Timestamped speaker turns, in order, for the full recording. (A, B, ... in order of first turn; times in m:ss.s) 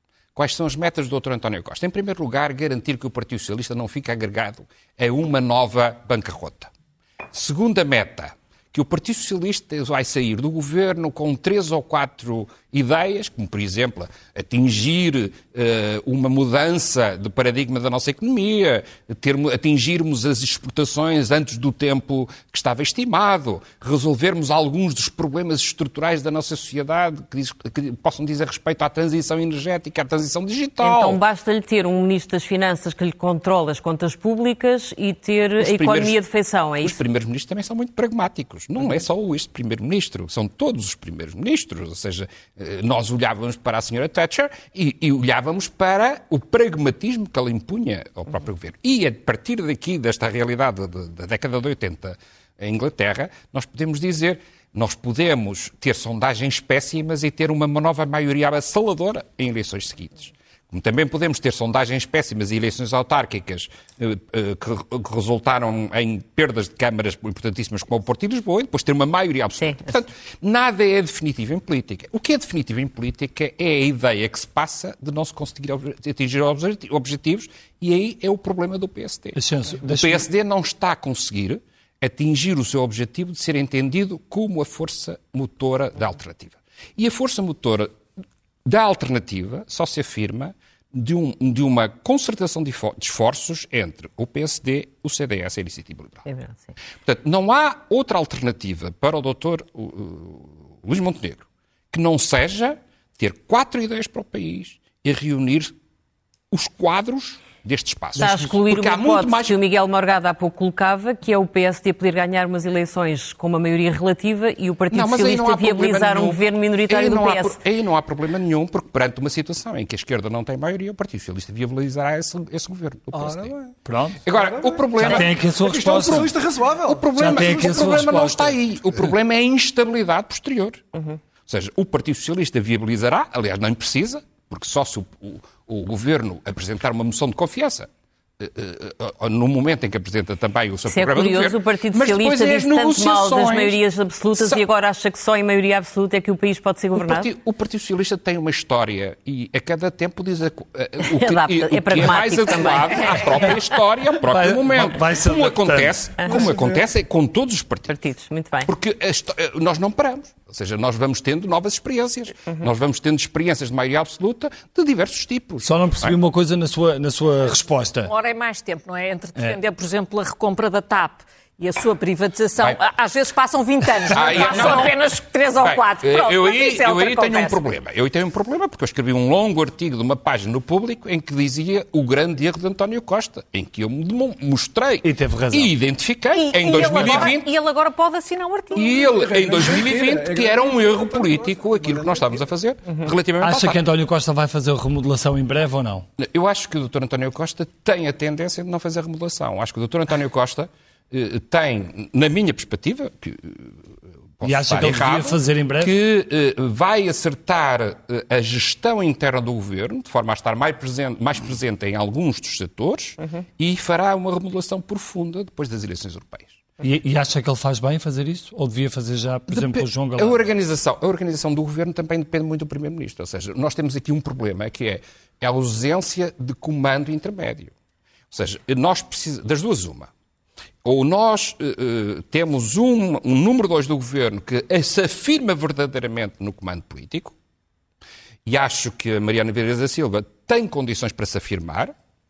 0:00.4-0:06.7 A
0:07.3-0:31.2 A
0:30.8-0:37.0 B
0:35.6-0:36.2 A
0:36.8-1:27.9 A
1:19.4-1:20.3 C
1:28.6-1:36.3 A
1:36.3-1:36.7 B
1:37.0-1:45.7 A
1:46.5-1:49.6 A
1:48.2-1:57.6 B
1:54.9-2:03.6 A
2:03.1-2:03.8 D
2:03.8-2:04.2 C
2:04.2-2:05.4 A
2:04.3-2:08.2 D
2:05.0-2:06.3 C
2:06.9-2:10.9 A
2:07.2-2:08.6 C
2:11.5-2:17.9 A
2:18.4-2:23.8 A
2:20.9-2:27.3 B
2:24.4-2:24.6 A
2:27.0-2:38.0 A
2:31.0-2:33.6 B
2:34.3-2:36.2 C
2:36.3-2:36.8 D
2:37.9-2:38.7 B
2:38.7-2:46.2 A
2:45.6-2:48.1 C
2:48.0-2:57.6 E
2:54.1-2:55.1 A
2:55.6-3:07.5 A
3:05.0-3:05.7 C
3:06.3-3:09.2 E
3:08.8-3:13.8 A
3:08.8-3:12.4 D
3:13.4-3:16.1 C
3:16.2-3:23.8 A
3:24.4-3:36.6 A
3:24.4-3:25.9 C
3:36.8-3:40.4 C
3:39.5-3:47.7 A
3:48.3-3:50.1 A
3:50.8-3:57.4 A
3:58.5-4:01.9 A